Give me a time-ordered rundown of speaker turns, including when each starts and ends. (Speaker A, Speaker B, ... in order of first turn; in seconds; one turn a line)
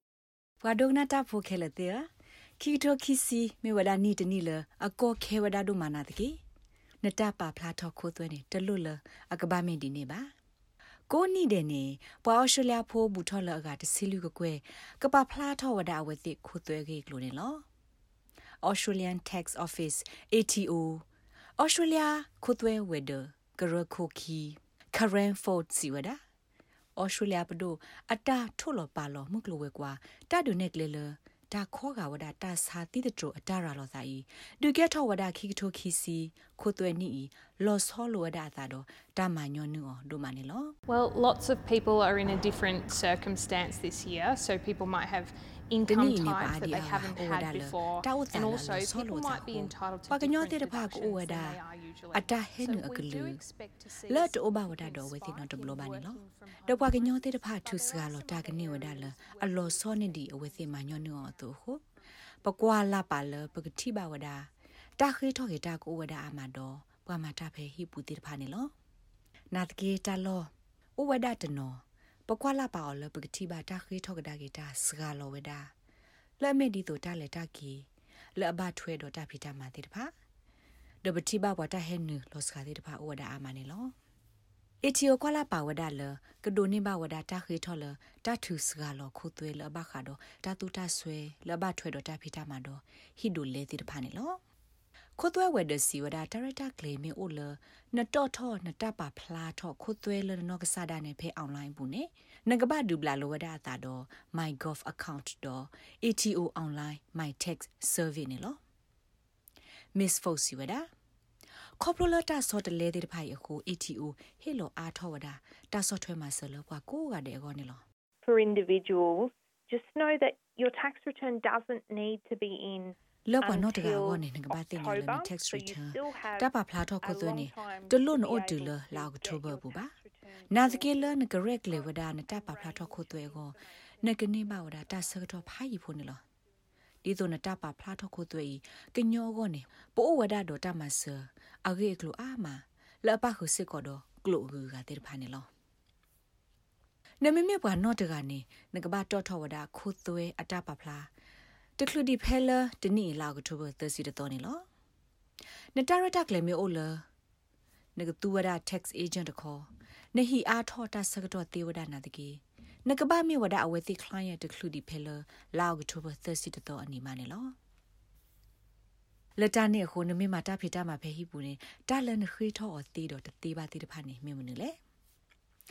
Speaker A: 0.6-2.1
Speaker A: 2.6-6.4
Speaker A: 7.0-10.3
Speaker A: 11.1-17.6
Speaker A: 18.6-21.1
Speaker A: 21.6-26.2
Speaker A: 27.0-40.8
Speaker B: 40.9-61.5
Speaker A: 45.9-51.6
Speaker A: 52.1-53.4
Speaker A: 54.1-61.8
Speaker A: 62.4-68.7
Speaker B: 62.7-63.2
Speaker A: 69.5-75.7
Speaker A: 76.4-80.1
Speaker A: 81.0-83.9
Speaker A: 84.8-94.4
Speaker A: 95.2-108.6
Speaker A: 110.0-110.9
Speaker A: 111.8-117.8
Speaker C: 118.2-131.2
Speaker A: 123.3-129.9
Speaker A: 130.5-136.2
Speaker C: 131.8-133.9
Speaker A: 137.0-145.5
Speaker A: 147.2-151.1
Speaker A: 151.8-154.7
Speaker A: 155.8-157.1
Speaker A: 158.0-167.6
Speaker A: 169.4-174.8